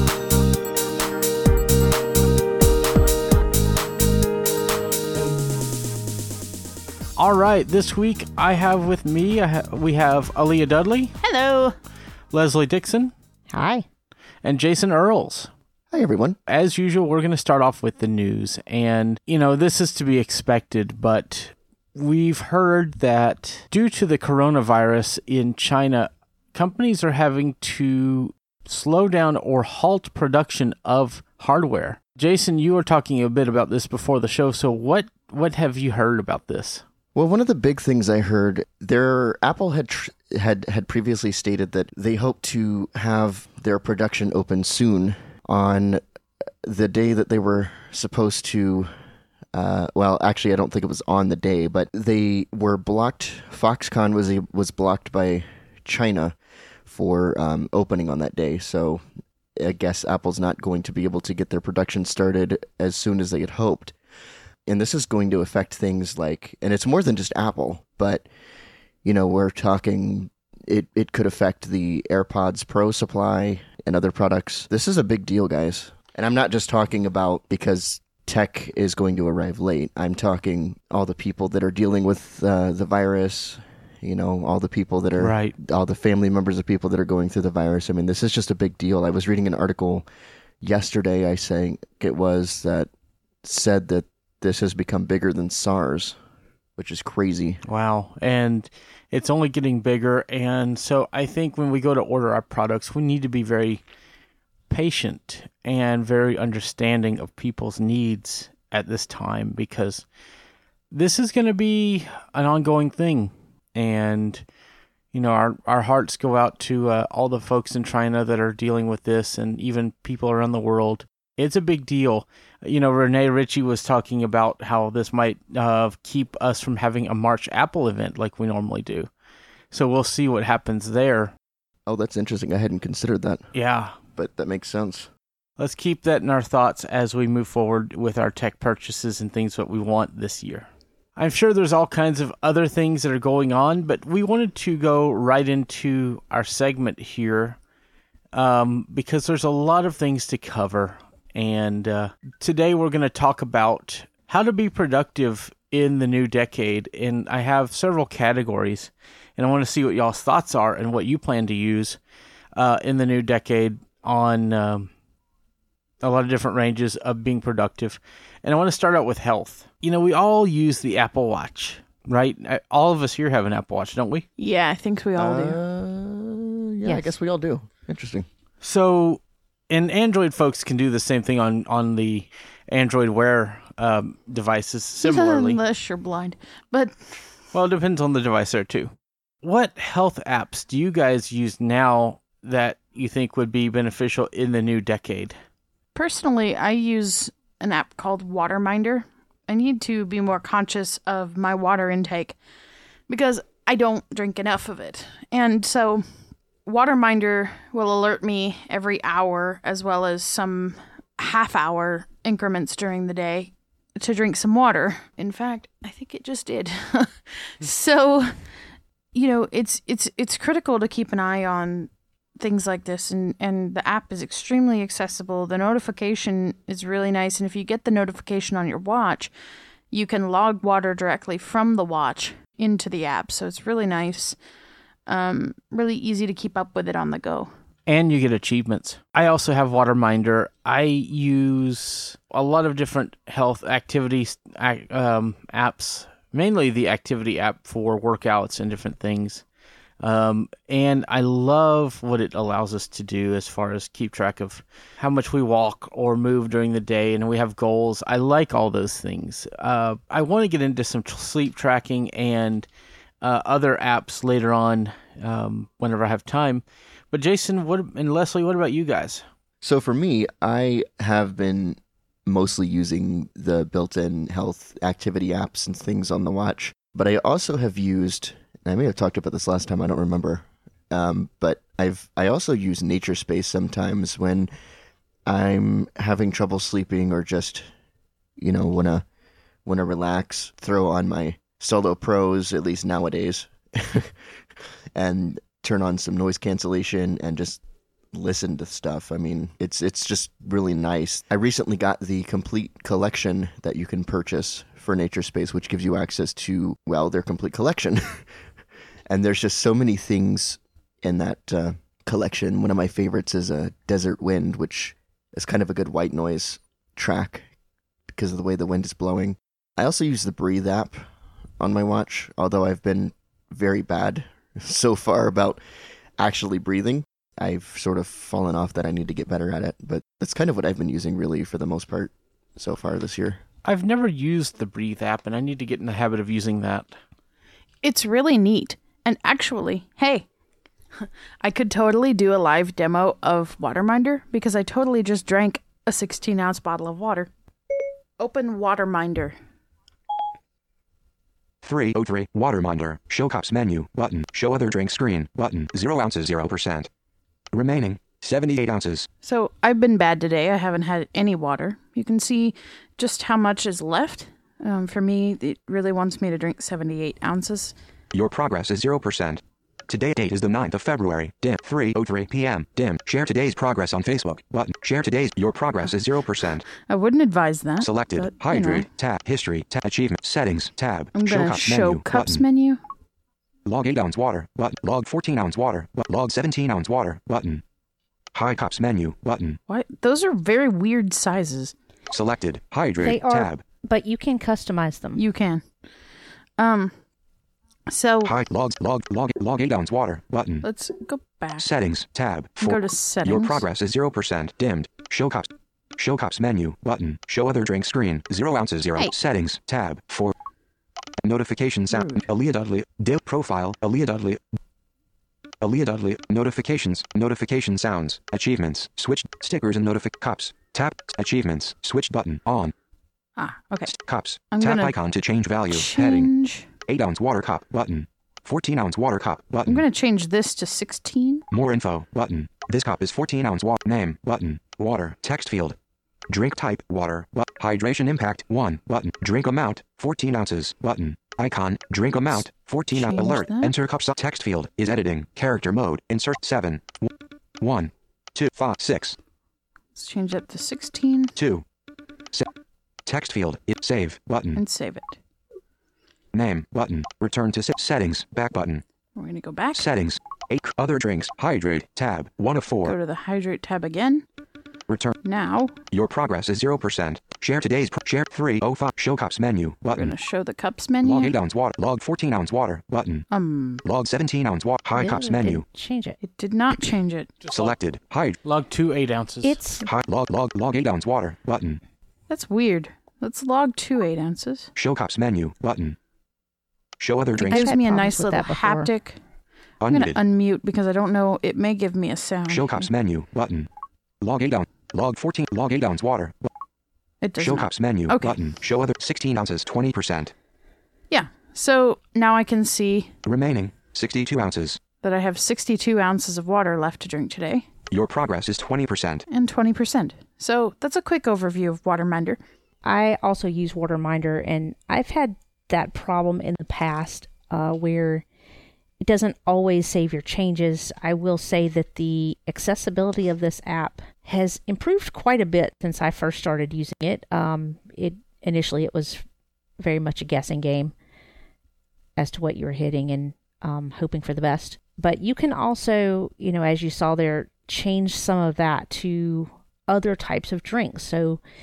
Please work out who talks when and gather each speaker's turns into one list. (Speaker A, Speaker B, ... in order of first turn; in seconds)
Speaker A: 7.2-11.2, 12.3-13.1, 14.4-15.5, 16.5-36.8, 85.2-85.5, 97.6-103.8, 104.7-110.1, 110.9-114.4, 115.1-129.1, 129.7-131.3, 133.5-134.0, 135.6-147.6, 148.3-162.0, 162.6-164.9, 166.0-174.3, 178.6-185.6, 187.5-195.4, 237.9-249.4, 250.0-262.7, 263.2-269.2, 333.6-336.9, 477.4-477.8, 478.4-479.6
Speaker B: 11.2-11.8, 174.4-175.6, 185.0-187.1, 195.9-202.4, 203.1-206.0, 206.7-218.3, 219.1-229.3, 229.9-234.4, 235.1-237.5, 337.8-340.3, 341.0-347.3, 348.2-349.4, 359.2-367.8, 376.8-378.9, 381.1-382.8, 389.7-391.7, 395.2-395.6, 396.6-396.9, 397.9-398.3, 400.6-401.7, 402.6-403.6, 411.9-412.2, 423.4-423.9, 424.5-424.9, 425.7-426.7, 429.7-431.5, 442.9-443.7, 450.0-451.3, 454.6-455.2, 459.2-459.9, 462.8-464.2, 465.2-465.7, 469.9-471.3, 473.3-473.8, 476.2-477.3, 482.3-484.7, 487.4-489.2, 489.9-492.9, 497.2-498.4, 501.1-503.1, 505.0-507.7, 509.3-512.4
Speaker C: 13.5-13.9, 393.0-395.2, 474.9-476.2, 479.4-479.9, 487.4-488.9, 512.9-518.2, 519.0-529.2, 529.8-530.9, 532.2-541.4
Speaker D: 15.9-16.4, 37.1-46.0, 46.6-48.9, 49.5-59.0, 59.6-64.0, 64.7-68.3, 69.0-90.1, 90.6-92.9, 93.4-96.2, 96.8-97.6, 131.9-133.5, 134.2-135.1, 175.2-178.3, 269.6-284.5, 285.3-287.6, 288.4-289.1, 289.6-294.1, 294.9-297.6, 298.1-308.3, 309.1-317.5, 318.1-321.1, 321.6-325.6, 326.2-333.4
Speaker E: 351.6-356.9, 357.5-359.1, 368.1-376.6, 377.8-382.4, 383.6-387.6, 388.3-389.6, 392.1-393.6, 398.2-400.7, 401.6-410.3, 411.2-414.4, 415.6-422.7, 423.9-426.3, 426.9-429.8, 431.5-435.8, 436.3-449.2, 451.4-451.6, 453.1-454.6, 456.3-458.8, 459.7-463.0, 464.9-465.2, 465.9-470.1, 471.0-473.3, 473.8-475.7, 477.5-478.4, 479.8-481.8, 484.8-486.0, 487.0-487.7, 489.8-490.2, 492.5-493.7, 494.2-496.5, 497.4-500.3, 503.2-504.8, 507.9-509.2